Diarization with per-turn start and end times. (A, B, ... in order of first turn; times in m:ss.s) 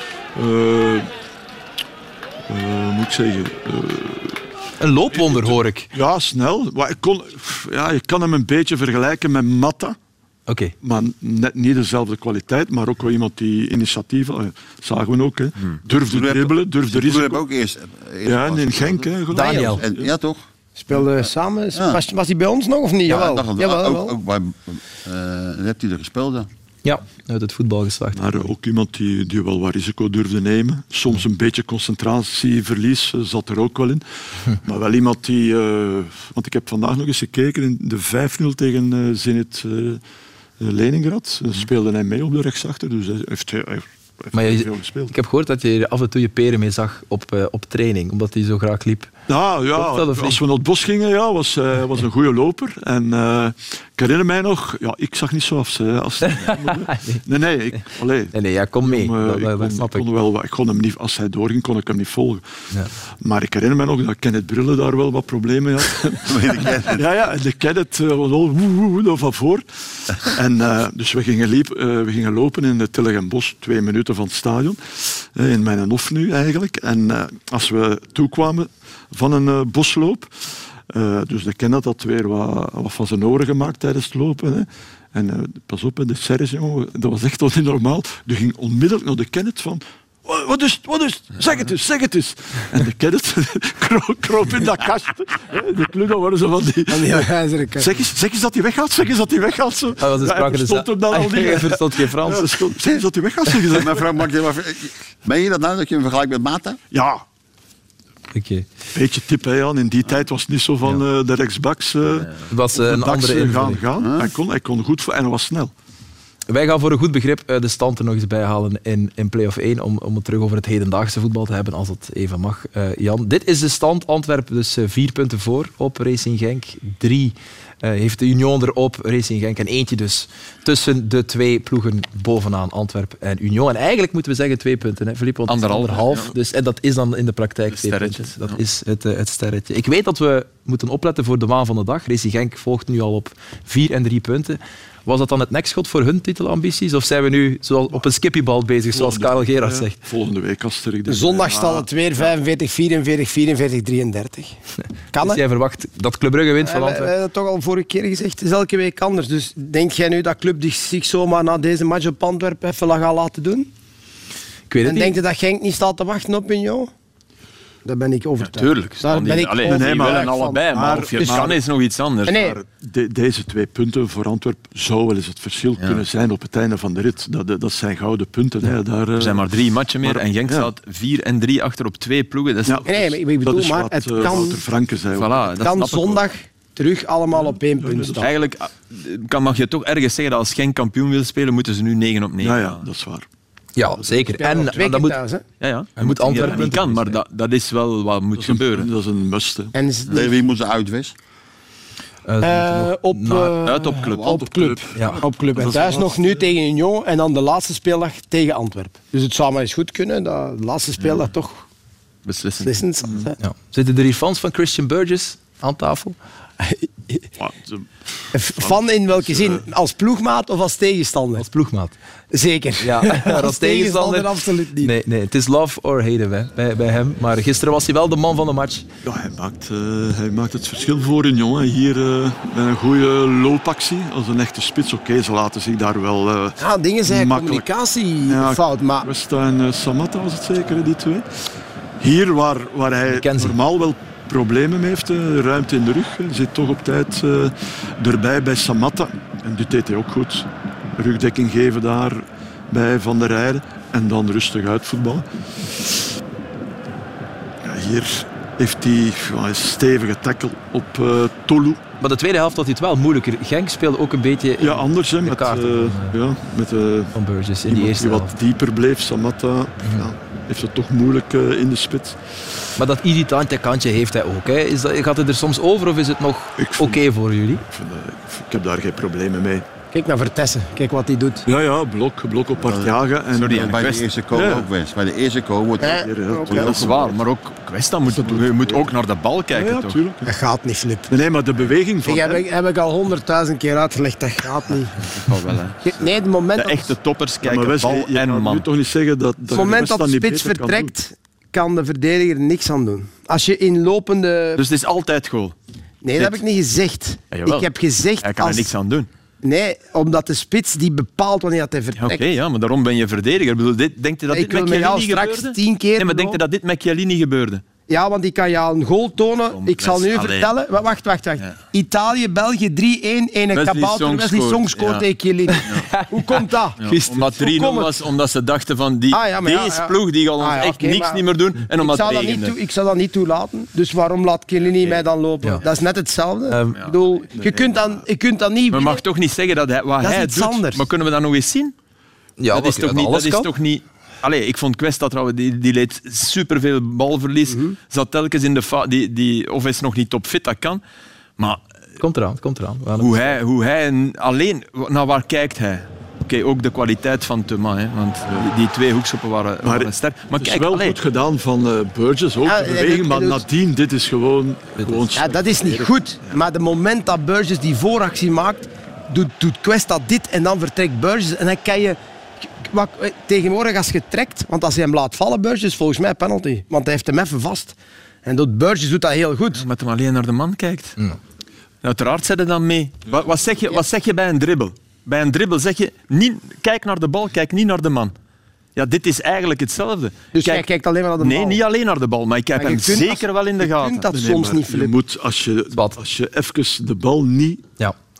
0:00.3-0:01.1 A
0:02.5-0:04.4 A
0:04.8-0:05.9 B
0:05.1-0:10.0 A
0:10.5-0:10.7 B
0:10.8-0:17.4 A
0:16.1-0:19.1 C
0:18.2-0:20.1 A
0:19.3-0:19.8 D
0:19.3-0:19.8 B
0:19.8-0:20.4 C
0:20.8-0:24.2 D
0:21.7-0:22.0 C
0:23.0-0:26.5 C
0:26.8-0:28.5 B
0:28.1-0:40.0 A
0:40.6-0:45.1 A
0:44.3-0:49.1 B
0:49.3-1:02.4 A
0:49.7-0:50.4 B
0:56.3-0:57.2 B
0:58.3-1:00.0 B
1:03.2-1:06.4 A
1:06.2-1:07.0 C
1:06.9-1:37.3 A
1:36.9-1:37.9 D
1:37.8-1:44.0 A
1:40.0-1:42.6 B
1:43.7-1:46.8 C
1:46.9-1:47.2 A
1:48.3-1:48.6 B
1:48.9-1:55.7 A
1:52.5-1:53.8 B
1:54.0-1:54.3 C
1:56.5-2:30.0 B
2:15.5-2:16.2 E
2:17.7-2:18.6 E
2:28.9-2:31.9 A
2:31.1-2:34.5 D
2:35.1-2:35.4 D
2:35.2-2:37.1 B
2:36.6-2:43.7 D
2:44.7-2:45.2 B
2:44.8-2:46.9 D
2:47.8-2:50.6 D
2:48.4-2:52.4 E
2:49.6-2:51.6 A
2:51.2-2:51.5 D
2:52.3-2:52.6 D
2:52.3-2:59.4 A
2:59.2-3:02.8 E
3:00.0-3:00.7 A
3:02.6-3:05.5 A
3:02.9-3:04.6 D
3:05.1-3:06.2 E
3:05.6-3:08.3 D
3:07.4-3:08.2 A
3:08.2-3:12.8 E
3:12.4-3:13.2 A
3:13.8-3:15.2 B
3:14.0-3:14.3 A
3:14.3-3:15.4 D
3:15.6-3:18.9 E
3:16.0-3:17.2 B
3:16.3-3:16.8 A
3:18.4-3:19.7 A
3:19.7-3:20.3 D
3:20.1-3:21.1 C
3:22.3-3:23.5 B
3:22.4-3:31.6 D
3:23.6-3:24.3 E
3:24.1-3:26.4 A
3:24.9-3:25.2 B
3:32.2-3:32.7 E
3:32.6-3:33.4 D
3:33.4-3:36.2 B
3:36.6-3:37.3 D
3:37.4-3:39.6 A
3:38.3-3:41.4 D
3:41.4-3:41.9 B
3:42.3-3:44.9 D
3:42.8-3:44.3 B
3:44.8-3:48.8 B
3:49.0-3:57.6 A
3:56.6-3:59.1 D
3:58.2-4:01.2 A
4:02.0-4:15.8 A
4:03.1-4:03.6 B
4:17.6-4:21.8 A
4:22.0-4:26.2 B
4:24.6-4:27.1 A
4:27.1-4:28.3 B
4:27.7-4:32.2 A
4:29.8-4:30.1 B
4:32.8-4:37.6 B
4:36.6-4:37.0 A
4:37.7-4:39.6 A
4:39.9-4:41.4 D
4:41.4-4:44.7 A
4:42.6-4:42.9 C
4:43.4-4:44.0 E
4:43.5-4:46.8 C
4:45.8-4:46.8 D
4:45.9-4:47.2 A
4:46.6-4:50.0 E
4:48.0-4:48.9 A
4:49.5-4:50.3 A
4:50.2-4:51.1 D
4:51.1-4:52.4 A
4:52.0-4:55.3 D
4:55.0-4:55.8 E
4:55.8-4:56.9 D
4:56.6-4:58.6 E
4:57.4-5:00.9 A
4:59.5-5:04.6 D
5:04.6-5:05.5 E
5:06.0-5:08.7 D
5:06.2-5:06.4 E
5:07.3-5:07.7 E
5:08.2-5:09.1 E
5:09.4-5:12.2 D
5:12.0-5:17.6 E
5:14.3-5:16.4 D
5:17.9-5:27.9 D
5:19.5-5:20.5 E
5:23.5-5:25.0 E
5:25.9-5:27.3 B
5:26.8-5:32.5 E
5:29.1-5:31.2 D
5:31.7-5:39.0 D
5:34.8-5:35.0 E
5:36.5-5:36.8 B
5:37.4-5:37.9 A
5:38.7-5:41.7 E
5:40.0-5:40.8 D
5:42.4-5:43.5 B
5:42.5-5:50.8 E
5:47.5-5:47.8 D
5:52.0-5:53.4 B
5:53.0-6:01.0 E
5:59.6-6:06.3 A
6:02.4-6:03.4 D
6:05.1-6:12.0 D
6:12.6-6:19.6 D
6:19.5-6:21.0 E
6:21.8-6:28.1 E
6:28.8-6:30.6 E
6:30.3-6:31.6 D
6:31.2-6:34.1 E
6:32.6-6:34.9 D
6:34.1-6:37.6 A
6:35.7-6:36.0 B